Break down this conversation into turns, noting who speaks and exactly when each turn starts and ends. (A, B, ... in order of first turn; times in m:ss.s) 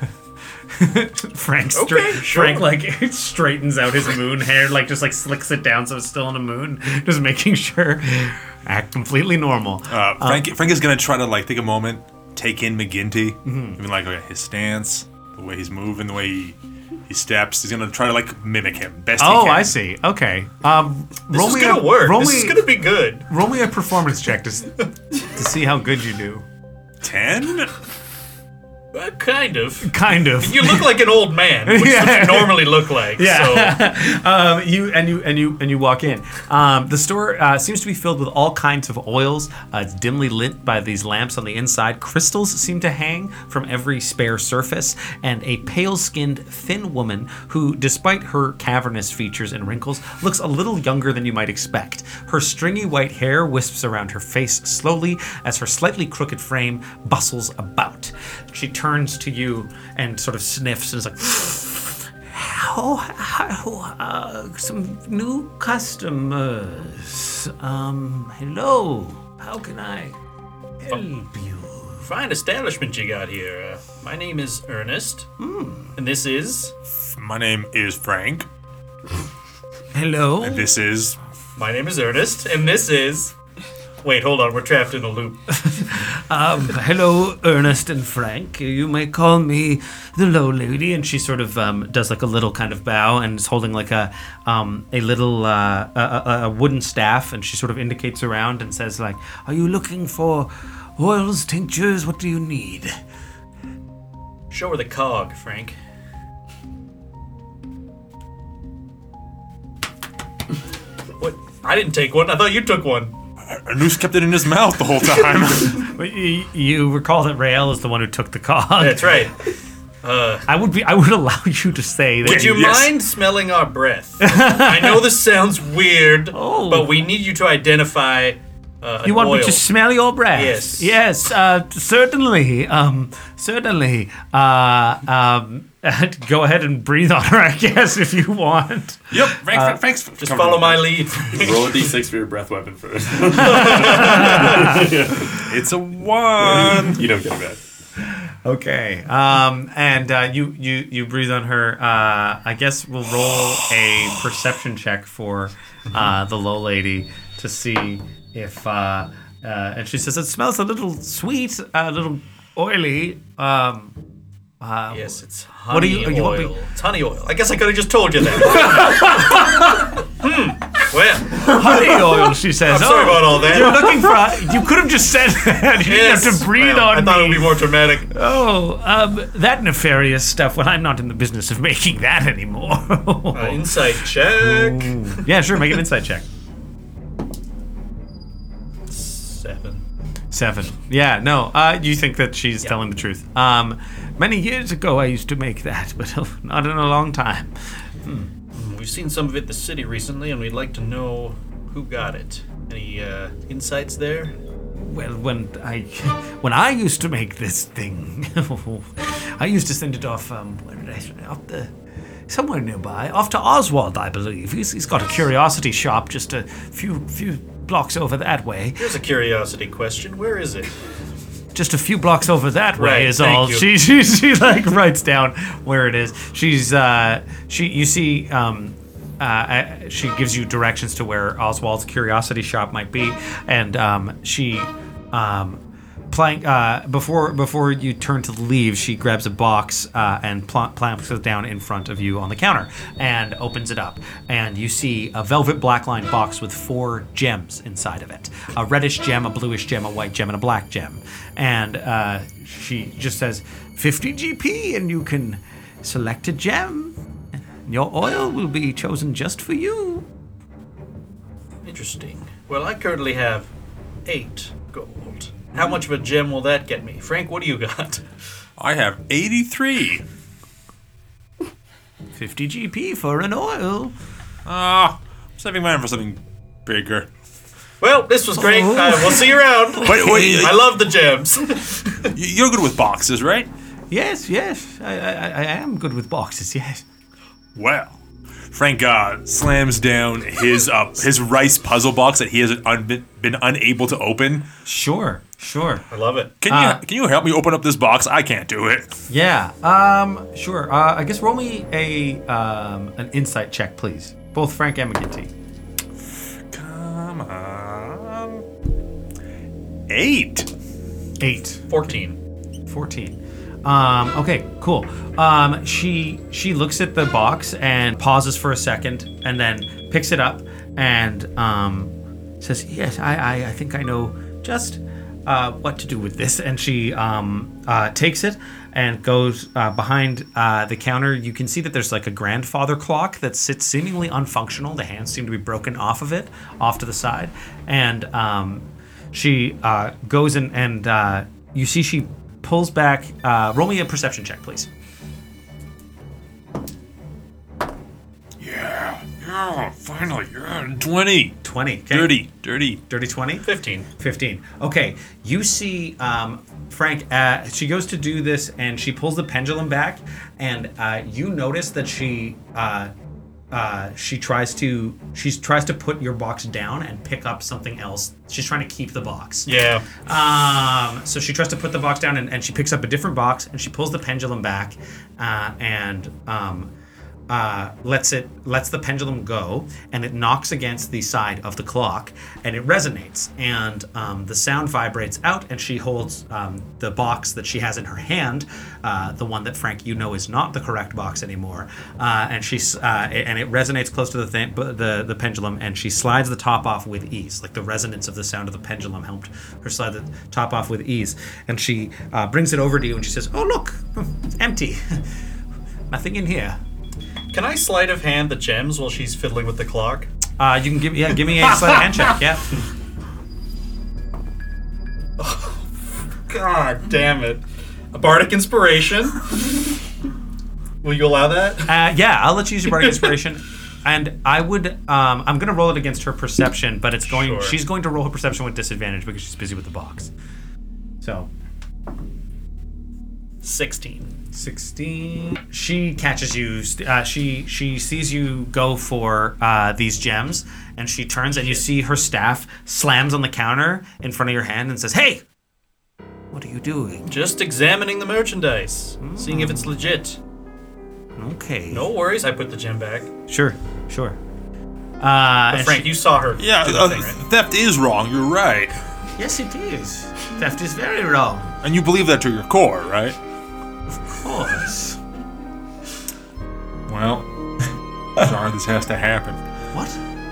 0:00.7-0:10.5 A
0:01.7-0:02.7 B
0:09.9-0:19.8 C
0:13.4-0:13.8 A
0:19.2-0:26.4 A
0:21.3-0:23.3 B
0:27.0-0:27.7 C
0:28.9-0:33.8 B
0:29.8-0:31.1 A
0:31.6-1:10.2 A
1:10.8-1:12.1 A
1:12.0-1:15.3 B
1:15.4-1:15.9 A
1:16.0-1:16.7 B
1:17.0-1:18.5 C
1:19.9-1:20.7 A
1:20.4-1:21.2 C
1:21.6-1:23.3 B
1:24.0-1:25.4 B
1:25.5-1:42.9 A
1:44.5-1:45.8 B
1:51.2-1:53.2 B
1:53.5-1:55.9 C
1:55.8-1:59.2 A
1:58.8-1:59.3 B
2:00.0-2:00.4 B
2:00.5-2:02.8 A
2:02.2-2:09.7 B
2:02.2-2:02.9 C
2:04.2-2:05.1 A
2:06.3-2:07.0 A
2:09.0-2:19.8 A
2:10.3-2:11.0 B
2:19.1-2:21.0 C
2:20.2-2:21.9 B
2:21.3-2:25.4 D
2:23.4-2:25.3 A
2:23.4-2:24.7 B
2:25.3-2:27.0 C
2:26.4-2:27.6 D
2:28.0-2:43.9 A
2:44.6-2:46.5 A
2:44.9-2:49.6 B
2:48.4-2:49.9 A
2:50.1-2:54.1 B
2:51.4-3:06.3 A
2:55.8-2:58.1 B
3:03.3-3:05.3 B
3:08.9-3:09.8 B
3:10.3-3:18.3 A
3:18.5-3:24.4 B
3:24.8-3:31.7 A
3:32.3-3:38.9 A
3:38.8-3:40.7 B
3:41.5-4:17.0 A
3:42.8-3:43.7 B
4:17.6-4:20.1 A
4:21.6-4:23.5 B
4:24.1-4:28.0 B
4:28.6-4:30.0 C
4:32.1-4:33.9 A
4:34.4-4:37.1 C
4:37.8-4:42.1 B
4:38.4-4:40.4 A
4:39.8-4:40.6 C
4:42.1-4:43.5 C
4:43.9-4:46.8 A
4:47.6-4:48.0 C
4:48.5-4:54.4 C
4:54.6-4:55.9 A
4:55.9-4:56.4 B
4:56.4-4:58.9 C
4:56.4-4:56.8 A
4:59.1-5:05.3 A
5:06.5-5:08.4 C
5:09.9-5:10.5 C
5:11.2-5:11.9 A
5:11.7-5:12.2 B
5:12.7-5:44.7 A
5:48.4-5:51.4 C
5:51.4-5:52.2 A
5:51.9-5:52.8 C
5:52.9-6:02.9 A
5:53.4-5:53.9 B
6:03.5-6:16.7 A
6:09.4-6:09.9 B
6:17.3-6:45.0 A
6:45.9-6:46.6 A
6:47.3-6:50.1 B
6:50.4-6:52.5 A
6:55.2-6:55.6 B
6:56.3-6:57.4 B
6:57.9-6:59.4 B
7:00.8-7:01.7 B
7:01.7-7:10.1 A
7:02.8-7:03.1 B
7:07.1-7:07.6 B
7:11.0-7:11.3 A
7:13.4-7:14.2 B
7:14.3-7:25.2 A
7:21.3-7:21.6 B
7:26.3-7:27.1 A
7:27.1-7:30.2 B
7:29.0-7:29.7 A
7:31.2-7:31.9 A
7:31.7-7:33.1 B
7:33.3-7:34.2 A
7:35.0-7:36.0 A
7:35.5-7:37.2 B
7:36.4-7:38.8 C
7:39.2-7:41.5 A
7:41.6-7:43.2 C
7:44.2-7:45.0 A
7:46.9-7:47.3 C
7:48.2-7:49.4 C
7:49.7-7:50.0 A